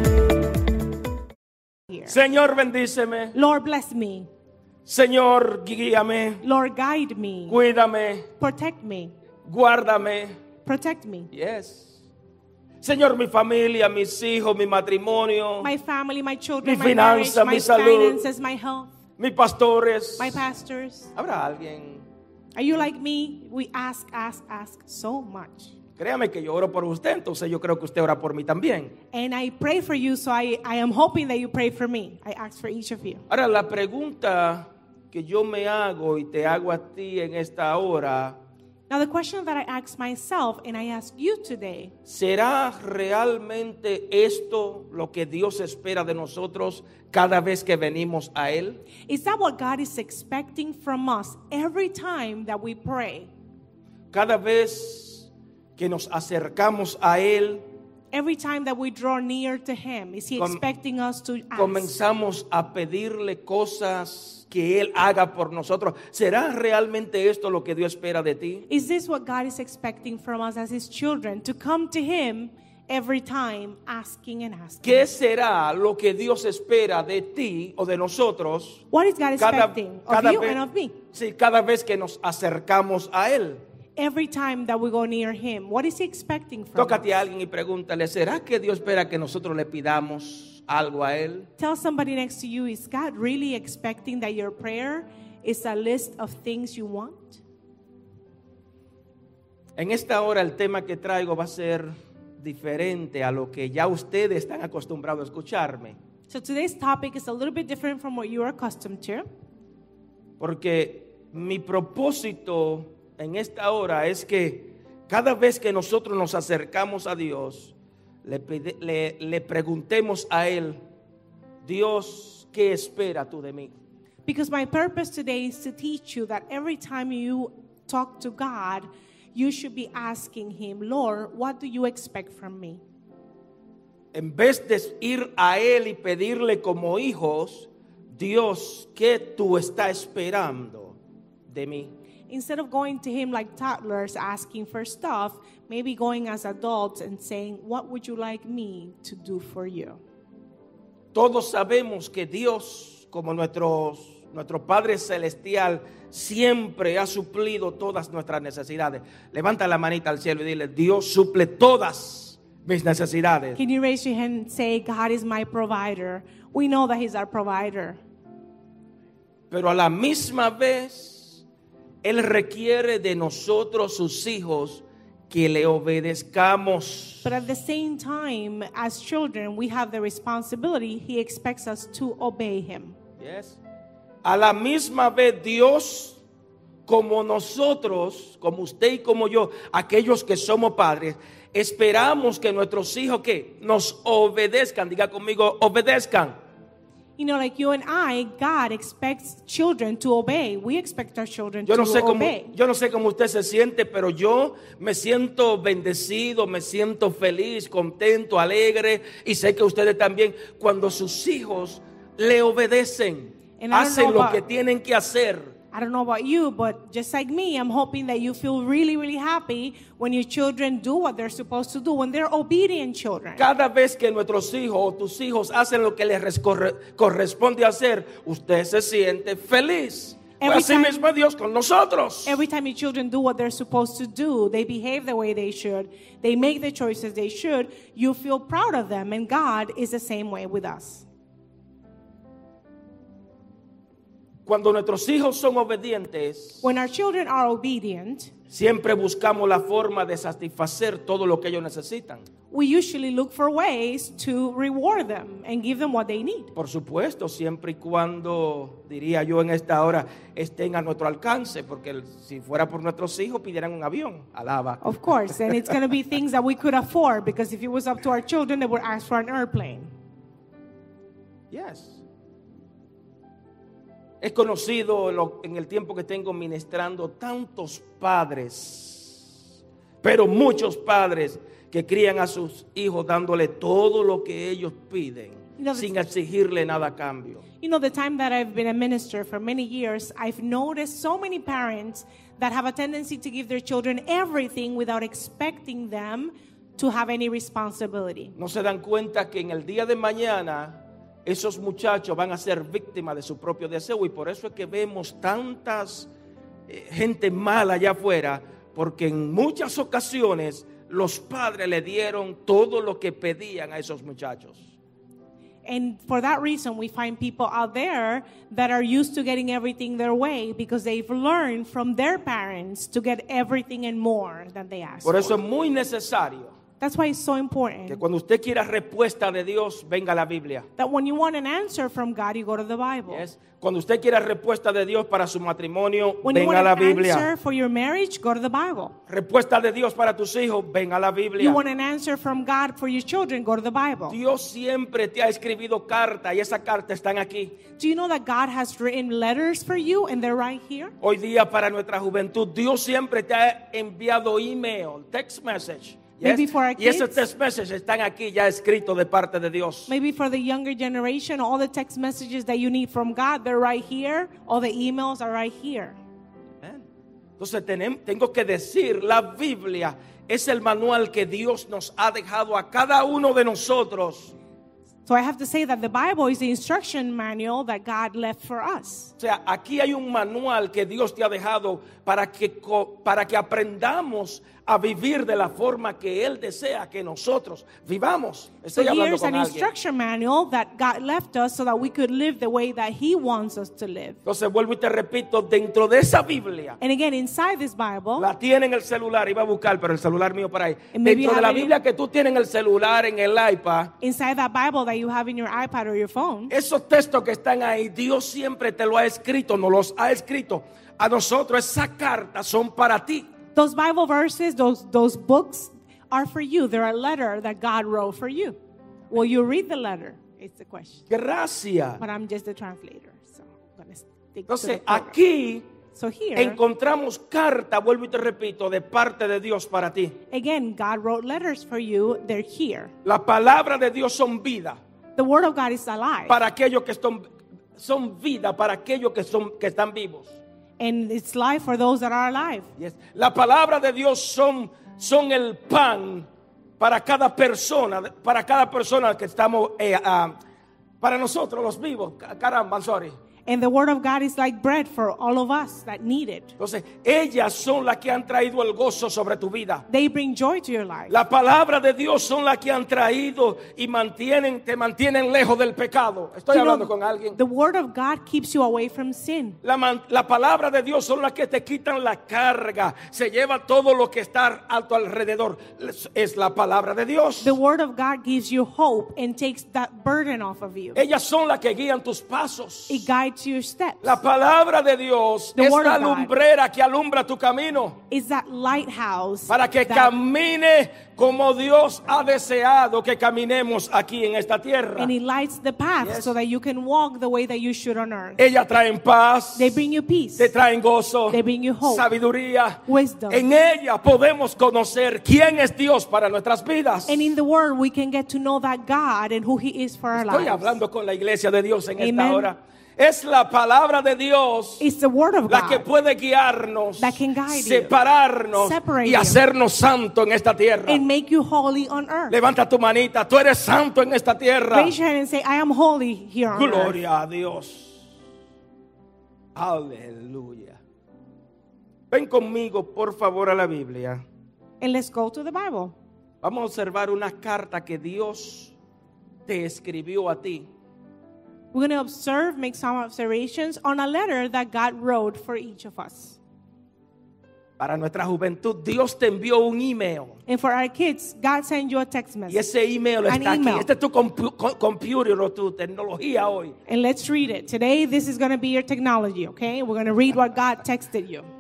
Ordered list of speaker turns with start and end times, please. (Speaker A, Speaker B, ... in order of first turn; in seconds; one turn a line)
Speaker A: 2.1-3.4
Speaker B: 3.3-4.3
Speaker A: 4.9-6.4
Speaker B: 6.4-7.6
Speaker A: 7.5-8.3
Speaker B: 8.4-9.1
Speaker A: 9.5-10.3
Speaker B: 10.7-11.3
Speaker A: 11.3-11.9
Speaker A: 12.8-15.7
Speaker B: 15.6-18.9
Speaker A: 16.6-18.2
Speaker A: 19.2-20.4
Speaker B: 20.2-21.1
Speaker A: 21.1-22.1
Speaker B: 22.6-25.8
Speaker A: 26.0-28.9
Speaker B: 29.1-33.2
Speaker A: 33.3-38.4
Speaker B: 38.9-41.9
Speaker A: 42.1-48.8
Speaker B: 49.0-53.3
Speaker A: 54.1-57.6
Speaker B: 58.1-61.9
Speaker A: 61.6-68.7
Speaker B: 68.7-75.1
Speaker A: 74.8-78.8
Speaker B: 78.9-81.0
Speaker A: 79.4-83.6
Speaker B: 84.0-87.1
Speaker A: 86.8-91.5
Speaker B: 91.6-97.4
Speaker A: 99.8-106.0
Speaker B: 106.3-109.2
Speaker A: 110.4-117.7
Speaker A: 118.2-120.8
Speaker A: 121.6-123.7
Speaker B: 124.3-132.8
Speaker A: 134.1-141.0
Speaker A: 141.5-141.9
Speaker B: 142.3-150.0
Speaker A: 151.1-163.6
Speaker B: 163.6-168.0
Speaker A: 169.5-171.4
Speaker A: 172.0-177.3
Speaker B: 177.2-183.0
Speaker A: 183.2-183.6
Speaker A: 184.2-186.2
Speaker A: 186.9-196.4
Speaker B: 197.2-202.5
Speaker A: 201.7-215.5
Speaker B: 213.6-214.4
Speaker B: 215.7-223.4
Speaker A: 223.4-232.4
Speaker B: 230.4-231.0
Speaker B: 232.3-241.1
Speaker A: 244.5-246.6
Speaker B: 246.6-248.3
Speaker A: 248.5-252.3
Speaker B: 252.5-256.5
Speaker A: 256.6-265.7
Speaker B: 264.8-269.9
Speaker A: 271.5-272.0
Speaker A: 274.2-279.2
Speaker A: 280.0-287.4
Speaker B: 285.6-285.9
Speaker B: 287.6-298.3
Speaker A: 298.4-306.1
Speaker A: 306.7-314.7
Speaker B: 315.6-325.4
Speaker A: 325.0-326.6
Speaker B: 326.8-328.0
Speaker A: 327.9-330.7
Speaker B: 330.8-333.2
Speaker A: 333.1-337.3
Speaker B: 336.2-339.0
Speaker A: 339.1-341.6
Speaker B: 341.4-344.2
Speaker A: 344.1-347.6
Speaker B: 347.8-350.9
Speaker A: 351.0-359.9
Speaker B: 356.2-357.2
Speaker B: 359.9-366.0
Speaker A: 367.4-374.3
Speaker B: 375.1-379.1
Speaker A: 379.2-389.7
Speaker B: 388.8-394.2
Speaker A: 394.2-396.8
Speaker B: 396.8-398.3
Speaker A: 398.2-403.9
Speaker B: 400.9-401.8
Speaker B: 404.0-406.5
Speaker A: 406.5-413.3
Speaker B: 413.6-418.6
Speaker B: 419.1-421.0
Speaker A: 421.1-422.0
Speaker B: 422.0-425.2
Speaker A: 424.5-425.7
Speaker B: 425.9-426.6
Speaker A: 426.4-430.2
Speaker B: 430.3-432.9
Speaker A: 433.1-434.8
Speaker B: 435.2-436.4
Speaker A: 436.3-440.4
Speaker B: 440.8-442.7
Speaker A: 442.8-446.3
Speaker A: 446.8-450.4
Speaker A: 451.0-453.1
Speaker B: 453.5-456.5
Speaker A: 456.6-459.9
Speaker B: 459.9-461.2
Speaker A: 461.1-467.4
Speaker B: 466.5-469.6
Speaker A: 469.6-477.6
Speaker B: 477.4-481.0
Speaker A: 480.9-483.1
Speaker B: 482.9-484.2
Speaker A: 484.0-488.0
Speaker B: 485.6-486.3
Speaker B: 488.1-490.1
Speaker A: 489.5-495.1
Speaker B: 495.0-498.4
Speaker A: 496.0-496.3
Speaker A: 498.4-499.8
Speaker B: 499.6-500.5
Speaker A: 500.4-507.3
Speaker B: 501.3-502.1
Speaker B: 502.9-503.5
Speaker B: 507.1-510.8
Speaker A: 510.1-514.9
Speaker B: 512.0-512.5
Speaker B: 514.8-515.9
Speaker A: 515.5-521.0
Speaker B: 517.0-518.0
Speaker B: 518.5-519.4
Speaker B: 520.9-522.4
Speaker A: 522.3-525.0
Speaker B: 524.7-527.0
Speaker A: 526.5-528.1
Speaker A: 529.5-530.8
Speaker A: 532.1-534.2
Speaker B: 534.8-536.0
Speaker A: 536.4-538.8
Speaker A: 539.5-540.7
Speaker B: 541.7-546.4
Speaker A: 547.8-550.4
Speaker B: 550.5-552.6
Speaker A: 552.5-556.8
Speaker B: 553.3-553.9
Speaker B: 556.9-561.5